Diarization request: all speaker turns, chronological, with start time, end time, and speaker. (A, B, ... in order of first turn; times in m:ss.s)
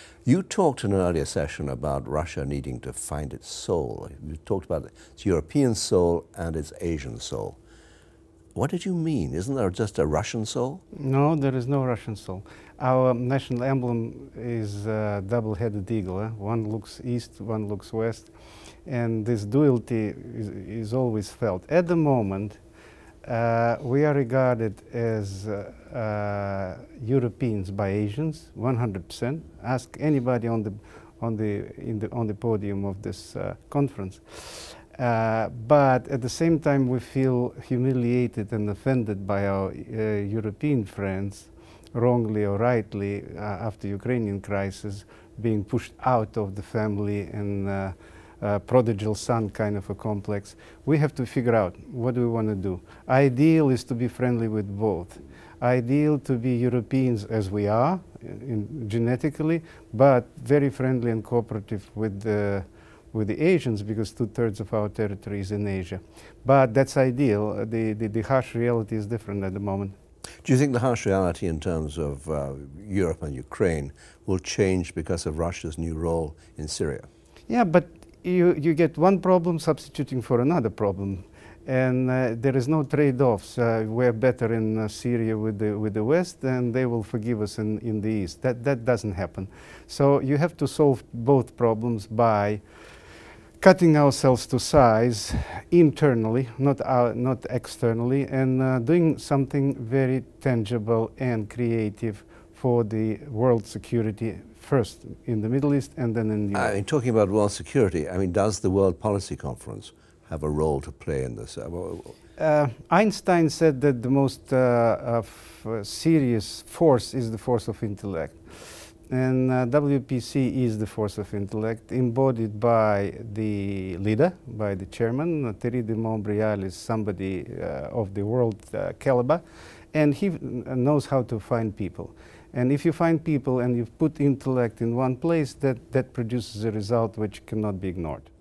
0:00.2-0:07.6 A
0:08.5-0:10.8 A
0:10.9-0:18.3 B
0:18.8-0:22.6 B
0:23.2-1:09.9 B
1:10.4-1:17.1 A
1:17.5-1:32.6 B
1:33.6-1:46.8 B
1:46.5-1:52.1 A
1:52.4-2:18.3 B